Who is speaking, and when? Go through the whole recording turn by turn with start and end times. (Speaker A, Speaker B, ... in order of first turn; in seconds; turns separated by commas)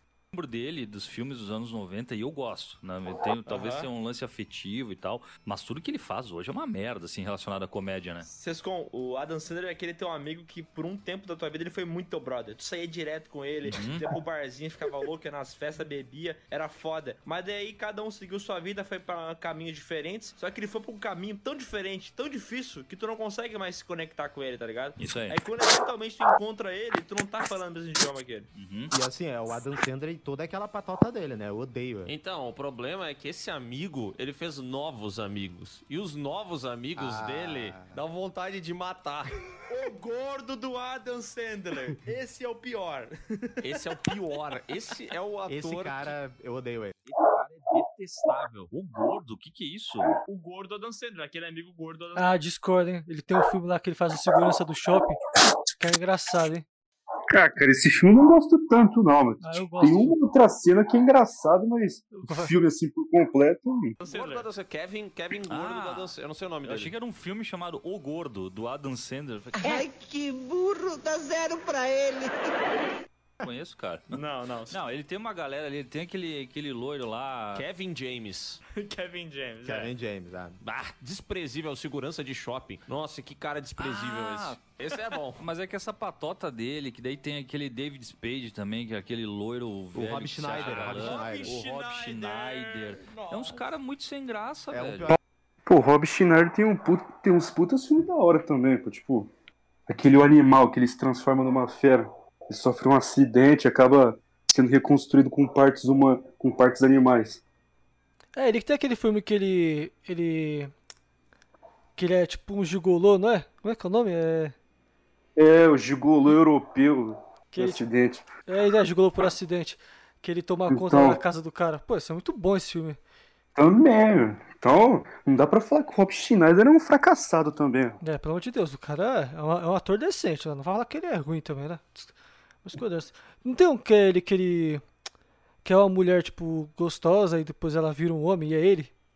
Speaker A: 0.3-8.2, Speaker B: 3.5-3.9, Speaker B: 8.2-28.5, Speaker A: 13.7-14.1, Speaker A: 25.0-25.4, Speaker A: 28.5-28.9, Speaker C: 28.9-32.1, Speaker D: 32.0-39.3, Speaker C: 37.0-38.0, Speaker B: 39.7-43.9, Speaker D: 43.6-46.1, Speaker C: 45.5-46.9, Speaker D: 47.1-48.7, Speaker A: 48.7-50.2, Speaker B: 50.2-52.3, Speaker E: 52.1-55.2, Speaker E: 55.8-56.6, Speaker F: 57.3-64.0, Speaker E: 59.4-60.2, Speaker E: 62.1-62.5, Speaker B: 64.0-64.5, Speaker D: 64.0-66.9, Speaker A: 65.4-69.8, Speaker G: 69.5-72.5, Speaker A: 73.4-77.7, Speaker B: 74.1-74.8, Speaker D: 77.5-78.6, Speaker B: 78.7-79.9, Speaker C: 79.6-80.6, Speaker D: 80.6-85.4, Speaker A: 83.8-84.6, Speaker A: 85.4-95.1, Speaker C: 89.9-91.6, Speaker B: 90.6-93.6, Speaker C: 94.7-95.2, Speaker F: 95.7-99.3, Speaker F: 99.9-107.4, Speaker E: 108.3-110.7, Speaker E: 112.0-114.5, Speaker F: 115.3-118.2, Speaker E: 117.5-117.9, Speaker E: 118.5-123.0, Speaker F: 120.7-121.2, Speaker F: 123.5-128.0, Speaker E: 128.0-132.1, Speaker E: 132.6-134.8, Speaker E: 135.6-138.9